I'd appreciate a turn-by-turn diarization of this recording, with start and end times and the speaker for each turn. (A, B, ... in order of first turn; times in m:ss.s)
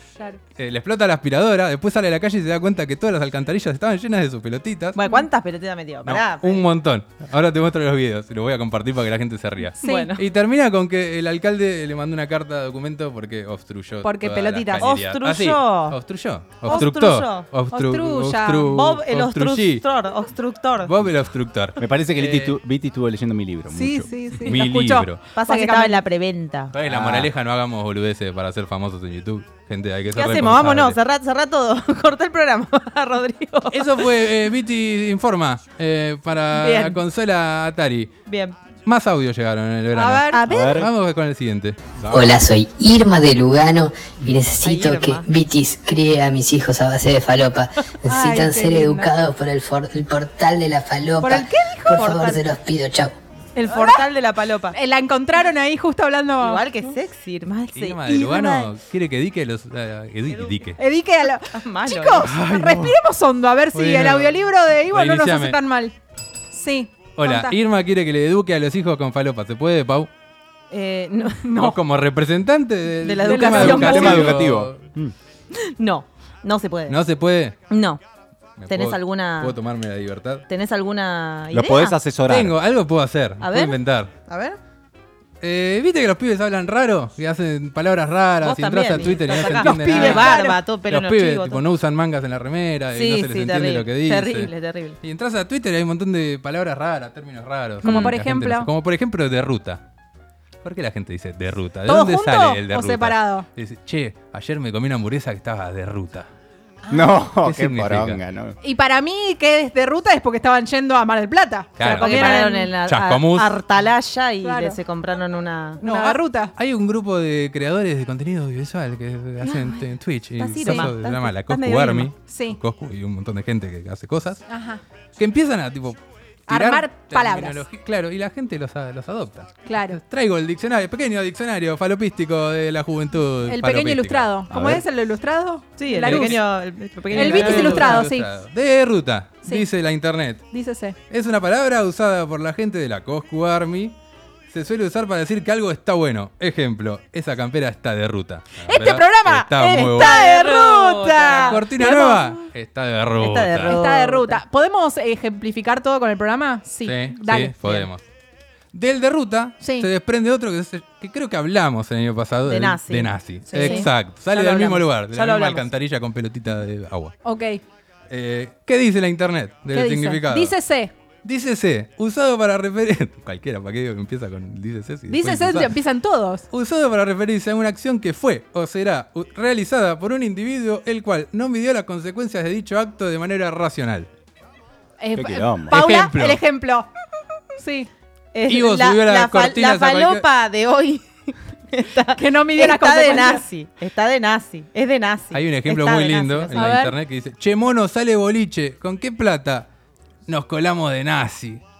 0:00.6-0:05.0 A
0:04.9-0:06.6 B
0:06.0-0:19.8 A
0:09.8-0:10.1 C
0:09.8-0:10.2 B
0:14.0-0:15.0 C
0:14.8-0:16.0 B
0:16.6-0:17.5 B
0:17.7-0:18.7 C
0:18.7-0:20.9 B
0:20.8-0:22.5 A
0:21.8-0:24.1 D
0:23.7-0:26.0 C
0:24.4-0:25.2 A
0:25.3-0:26.7 B
0:26.7-0:31.0 A
0:26.8-0:27.3 D
0:30.1-0:33.9 B
0:33.7-0:38.1 A
0:36.6-0:37.0 B
0:38.3-0:38.5 B
0:38.8-0:41.8 A
0:39.9-0:40.8 C
0:40.5-0:40.9 D
0:42.0-0:42.4 D
0:42.1-0:53.1 E
0:44.5-0:45.2 B
0:48.0-0:49.1 C
0:51.2-0:52.1 C
0:51.9-0:52.4 B
0:53.5-0:54.8 B
0:53.7-0:54.0 C
0:54.7-0:56.6 C
0:56.4-0:58.7 B
0:57.7-1:00.8 A
1:00.8-1:05.9 C
1:01.5-1:02.3 B
1:02.2-1:03.0 A
1:03.7-1:05.6 A
1:06.5-1:07.6 C
1:07.2-1:10.1 A
1:10.7-1:11.5 B
1:11.4-1:11.8 C
1:11.6-1:14.8 A
1:13.0-1:14.4 B
1:13.2-1:14.2 C
1:13.4-1:15.1 D
1:15.5-1:17.0 B
1:16.9-1:17.6 A
1:17.7-1:18.0 B
1:18.6-1:20.4 A
1:18.7-1:19.5 B
1:20.5-1:22.0 B
1:21.5-1:22.5 D
1:22.3-1:24.1 A
1:23.4-1:24.6 B
1:25.4-1:39.8 A
1:28.4-1:31.6 B
1:29.3-1:30.6 C
1:32.9-1:35.0 B
1:37.8-1:38.1 B
1:37.8-1:38.7 C
1:40.6-1:46.3 A
1:41.8-1:43.5 C
1:46.9-1:47.1 C
1:46.9-1:48.6 D
1:47.4-1:48.2 A
1:48.6-1:52.7 C
1:51.8-1:53.6 A
1:52.0-1:56.2 B
1:54.4-1:54.8 C
1:55.8-1:56.5 C
1:56.6-2:04.4 A
1:59.4-1:59.8 B
2:00.4-2:02.1 B
2:00.6-2:00.9 C
2:02.2-2:02.6 C
2:04.5-2:04.8 C
2:05.2-2:14.8 A
2:06.5-2:07.6 C
2:09.6-2:10.0 C
2:13.5-2:16.4 C
2:14.5-2:14.8 D
2:15.8-2:18.0 B
2:16.0-2:16.4 A
2:17.1-2:20.4 A
2:17.1-2:18.3 C
2:20.5-2:21.0 C
2:21.1-2:24.0 A
2:24.5-2:30.2 A
2:28.6-2:32.0 C
2:29.9-2:32.4 B
2:31.5-2:33.7 A
2:33.2-2:34.4 B
2:33.6-2:37.8 C
2:36.8-2:38.0 A
2:38.7-2:47.2 A
2:39.6-2:39.9 C
2:42.4-2:45.6 B
2:43.5-2:43.9 C
2:47.2-2:47.6 C
2:48.1-2:50.5 A
2:49.7-2:50.9 C
2:51.2-2:55.8 A
2:55.1-2:56.4 C
2:56.5-3:04.1 A
3:05.0-3:06.9 C
3:05.2-3:05.8 D
3:05.7-3:06.4 A
3:07.6-3:07.9 C
3:08.3-3:16.7 B
3:08.5-3:10.2 A
3:12.1-3:13.4 C
3:15.3-3:19.7 A
3:16.5-3:16.9 C
3:20.3-3:21.6 A